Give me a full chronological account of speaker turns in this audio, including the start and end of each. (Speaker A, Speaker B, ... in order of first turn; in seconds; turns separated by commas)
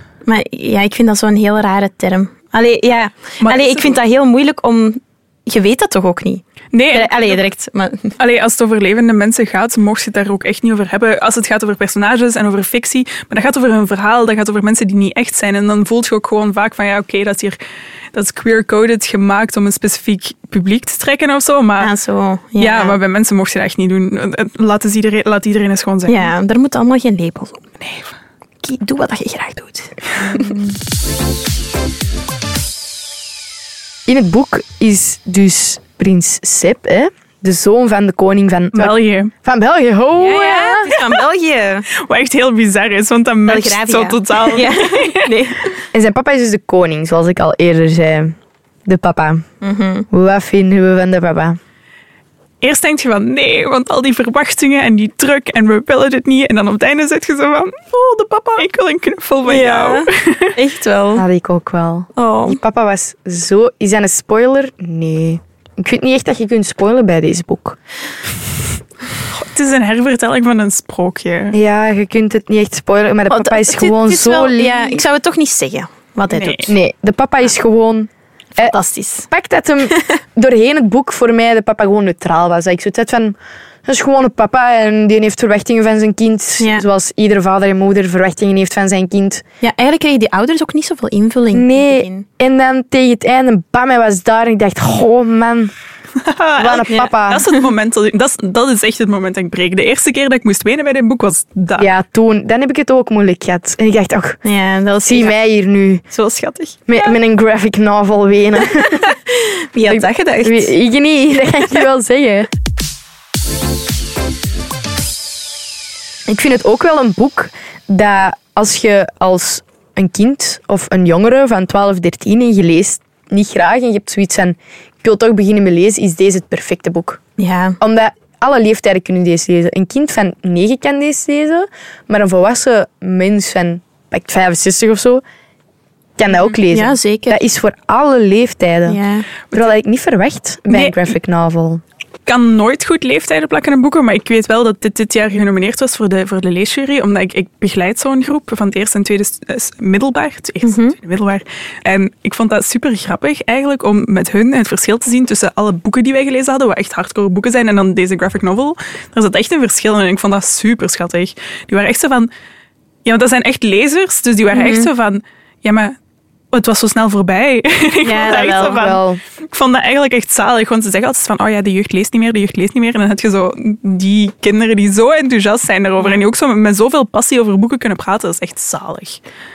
Speaker A: 0.2-8.1, Speaker B: 3.4-4.0, Speaker B: 6.7-7.4, Speaker B: 8.2-17.6, Speaker B: 18.1-21.9, Speaker A: 21.8-23.0, Speaker B: 22.6-26.3, Speaker A: 26.1-27.6, Speaker B: 27.8-28.1, Speaker A: 28.6-30.6, Speaker C: 34.1-40.9, Speaker B: 38.7-39.3, Speaker A: 40.1-41.9, Speaker B: 42.0-45.3, Speaker A: 43.5-45.8, Speaker C: 45.9-48.3, Speaker C: 48.9-49.5, Speaker A: 49.6-50.1, Speaker C: 50.1-51.6, Speaker B: 52.6-60.5, Speaker A: 59.5-61.2, Speaker C: 61.1-67.8, Speaker A: 62.1-62.6, Speaker B: 69.3-71.6, Speaker C: 71.5-75.0, Speaker A: 73.3-76.7, Speaker B: 76.3-76.7, Speaker C: 76.7-78.8, Speaker A: 78.6-79.3, Speaker C: 79.3-89.4, Speaker A: 86.6-86.8, Speaker A: 89.6-92.2, Speaker C: 91.5-95.7, Speaker B: 96.2-101.9, Speaker C: 96.5-97.4, Speaker C: 101.8-104.4, Speaker A: 104.4-105.4, Speaker C: 105.0-106.0, Speaker A: 106.1-107.1, Speaker C: 106.9-109.0, Speaker A: 108.8-110.7, Speaker C: 109.8-112.5, Speaker C: 116.3-127.2, Speaker A: 127.4-127.8, Speaker C: 127.8-135.2, Speaker C: 136.2-139.0, Speaker A: 136.7-137.4, Speaker A: 138.9-139.3, Speaker C: 139.5-141.8, Speaker B: 140.7-141.1, Speaker B: 142.2-162.3, Speaker A: 150.6-150.9, Speaker B: 163.0-165.9, Speaker A: 164.5-164.9, Speaker B: 166.5-179.2, Speaker A: 168.0-168.8, Speaker C: 168.7-169.2